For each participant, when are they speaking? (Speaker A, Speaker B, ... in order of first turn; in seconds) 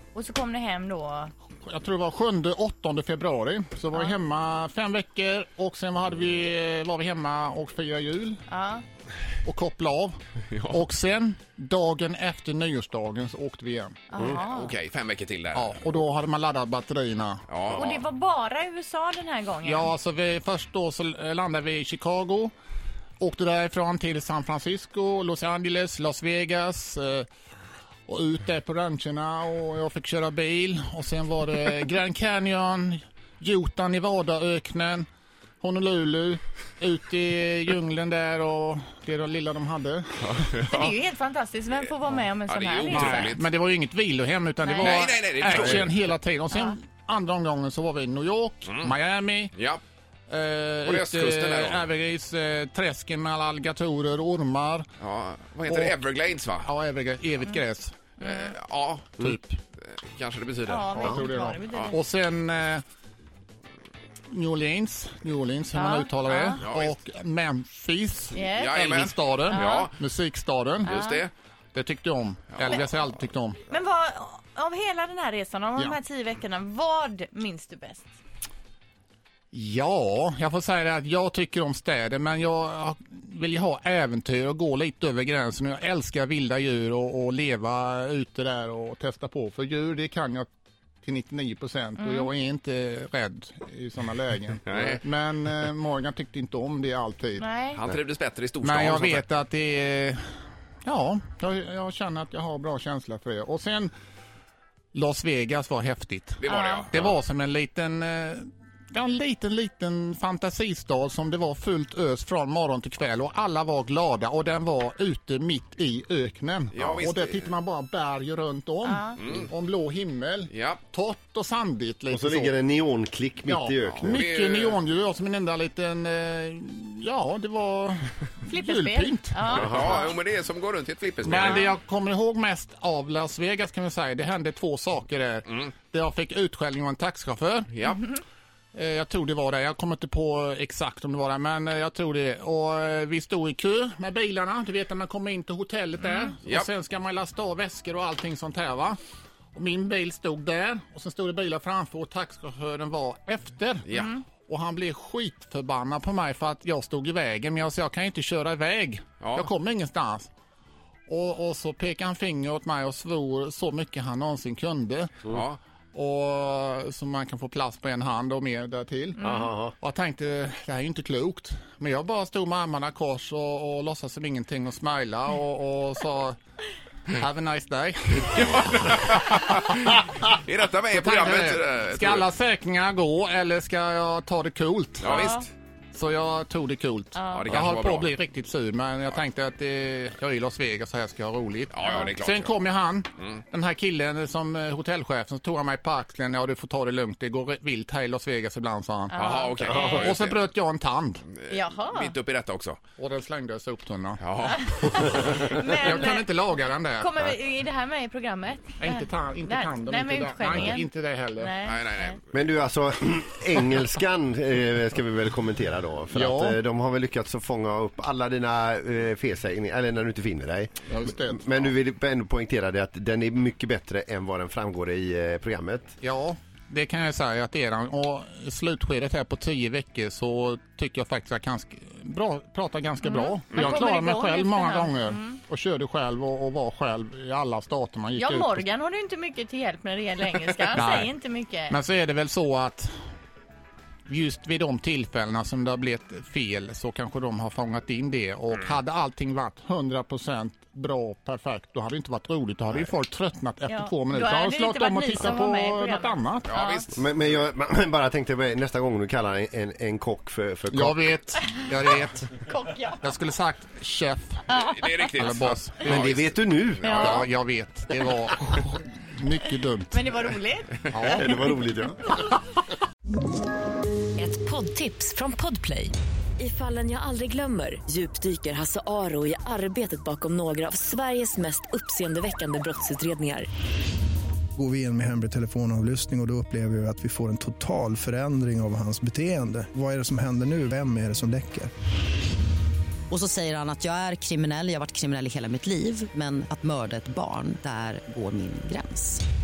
Speaker A: 0.1-1.3, 8.5-8.8, 14.1-14.7, 17.8-19.9, 40.6-43.4, 44.6-45.1, 58.2-58.5, 60.7-62.0, 65.7-66.6, 68.3-68.8, 69.5-69.9, 70.9-71.2, 73.7-78.1, 92.0-92.3, 97.3-97.8, 106.5-106.9, 118.8-119.2, 128.5-130.2, 131.4-131.7, 146.0-146.3, 169.2-169.5, 185.1-185.5, 187.1-187.6, 191.8-192.1, 199.1-200.1, 201.5-202.1, 204.4-212.2, 233.0-235.4, 238.1-241.8, 253.7-257.0, 262.4-263.1, 264.5-265.2, 266.8-267.2, 269.9-271.5
Speaker B: 1.6-8.4, 9.4-14.0, 15.5-17.4, 19.6-22.5, 23.2-27.2, 28.1-35.0, 35.6-40.4, 42.9-49.5, 50.3-54.9, 55.6-56.0, 56.5-58.0, 59.2-59.6, 61.1-62.8, 64.3-71.0, 71.7-73.6, 79.5-90.5, 91.0-97.5, 98.6-100.3, 100.8-103.9, 104.9-122.5, 123.5-130.0, 131.2-137.7, 138.7-149.0, 149.5-160.3, 161.1-165.2, 165.9-169.2, 169.8-176.4, 177.1-180.3, 180.9-185.3, 185.9-199.2, 199.8-201.2, 203.0-205.0, 205.6-207.1, 208.8-211.6, 216.1-216.6, 220.9-221.7, 226.0-238.7, 240.7-241.1, 241.7-242.9, 244.1-256.5, 260.7-262.3, 263.0-264.5, 265.1-266.0, 266.8-270.0, 270.9-271.4
Speaker C: 14.3-15.8, 17.5-18.0, 40.2-41.0, 42.5-43.5, 44.8-45.9, 49.5-49.8, 50.8-51.9, 55.0-56.6, 58.2-59.1, 59.8-61.1, 66.6-67.0, 68.4-69.9, 70.8-71.3, 94.7-95.0, 97.7-99.2, 106.4-107.1, 116.7-117.5, 119.2-119.5, 120.5-120.8, 123.9-124.8, 129.5-131.6, 137.7-138.0, 153.9-154.1, 159.2-159.5, 165.3-165.6, 178.3-182.2, 185.0-185.5, 187.3-188.1, 191.7-192.5, 199.2-200.4, 201.3-202.8, 204.2-204.7, 211.6-212.3, 256.5-256.9, 264.7-267.3
Speaker D: 122.1-124.3, 169.2-169.7, 212.3-225.9, 256.9-261.0, 265.8-266.9, 271.1-272.1
Speaker E: 274.2-283.4
Speaker F: 284.5-291.7
Speaker G: 293.1-299.2